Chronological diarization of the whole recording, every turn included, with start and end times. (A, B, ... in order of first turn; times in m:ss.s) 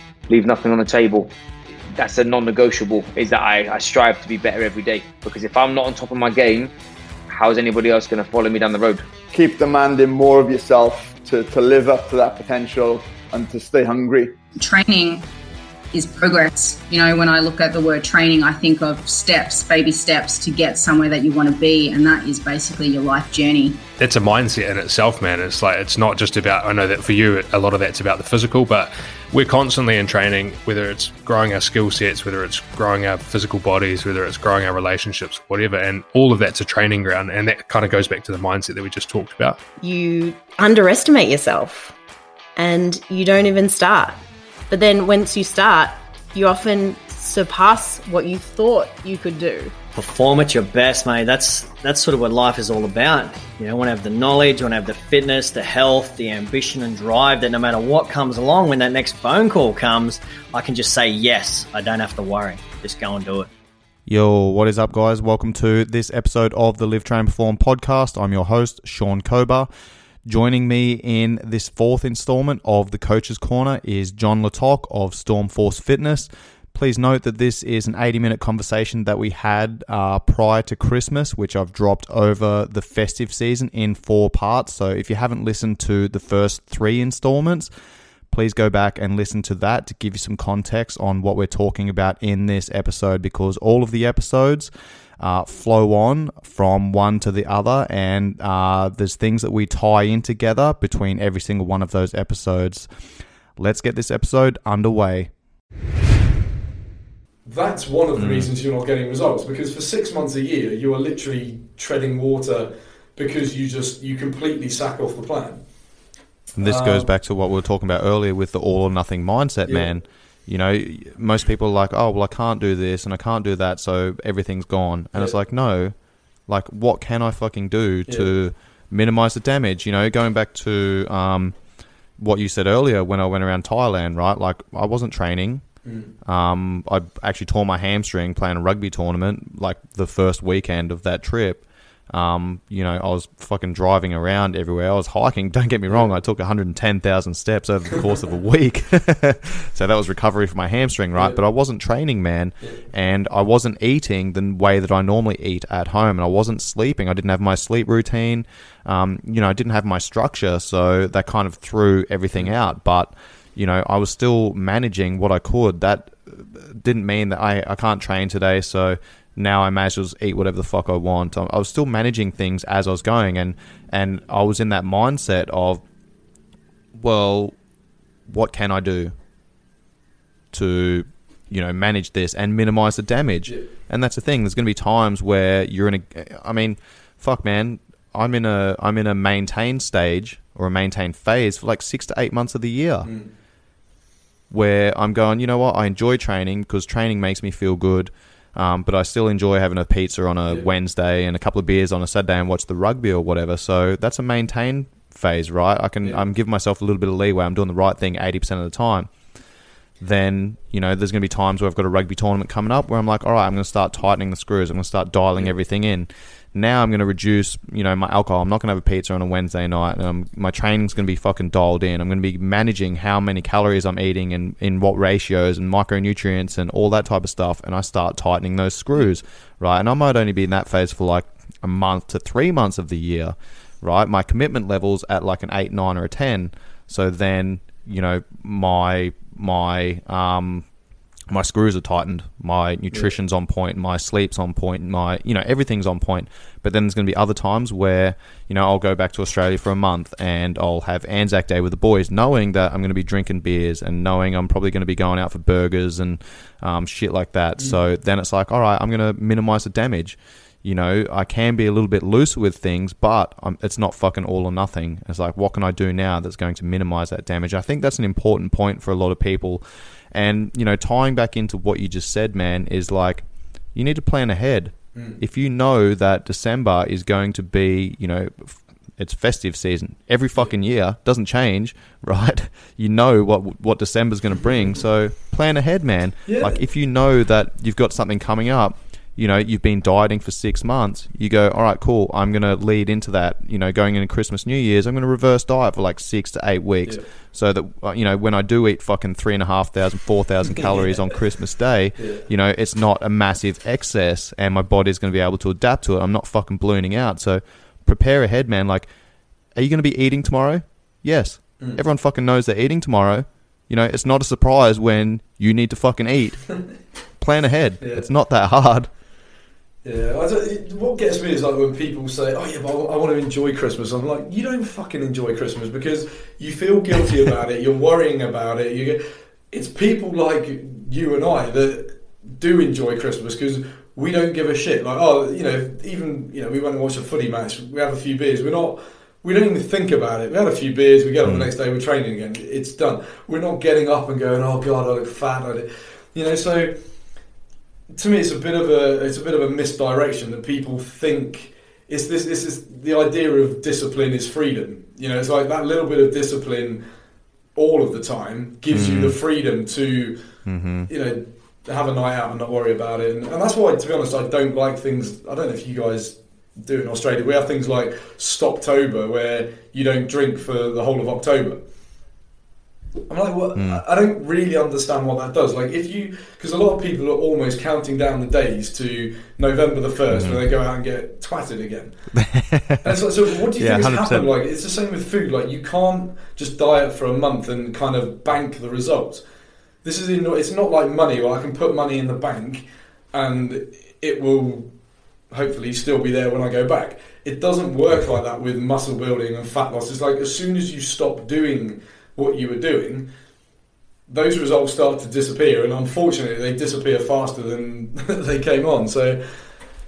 0:00.3-0:01.3 A
0:01.9-0:06.7 A
0:07.3-0:09.0 A
0:09.3-0:14.3 B
0:14.6-0:15.2 C
0:15.9-0:23.8 C
0:24.0-0:39.6 D
0:39.8-0:41.9 E
0:42.6-0:49.7 E
0:49.9-1:03.5 F
1:04.1-1:09.7 G
1:10.2-1:27.7 G
1:28.3-1:42.9 G
1:43.6-1:45.3 G
1:47.4-1:55.6 H
1:48.2-1:48.5 G
1:56.6-2:05.9 G
1:56.6-1:57.1 H
2:06.5-2:11.6 G
2:08.1-2:08.3 H
2:12.2-2:15.6 G
2:15.8-2:16.1 H
2:16.2-2:55.8 G
2:31.1-2:31.4 H
2:56.9-2:57.6 G
2:58.3-2:59.1 G
3:00.5-3:13.1 G
3:13.0-3:13.3 H
3:14.5-3:29.1 G
3:30.0-4:00.6 G
4:01.3-5:08.9 G
4:34.9-4:35.2 H
4:46.2-4:46.6 H
5:00.6-5:01.1 H
5:02.0-5:02.3 H
5:09.5-5:16.5 G
5:17.2-5:18.9 G
5:17.8-5:18.1 H
5:19.8-5:46.8 H
5:47.9-5:56.8 H
5:57.5-6:00.2 H
5:58.7-5:59.2 G
6:00.4-6:00.9 G
6:00.9-6:11.6 H
6:13.1-6:21.9 H
6:13.5-6:13.8 G
6:20.1-6:20.4 G
6:22.1-6:23.0 G
6:22.8-6:29.2 H
6:23.6-6:24.3 G
6:29.8-6:34.7 H
6:35.3-6:43.1 H
6:44.1-6:49.5 H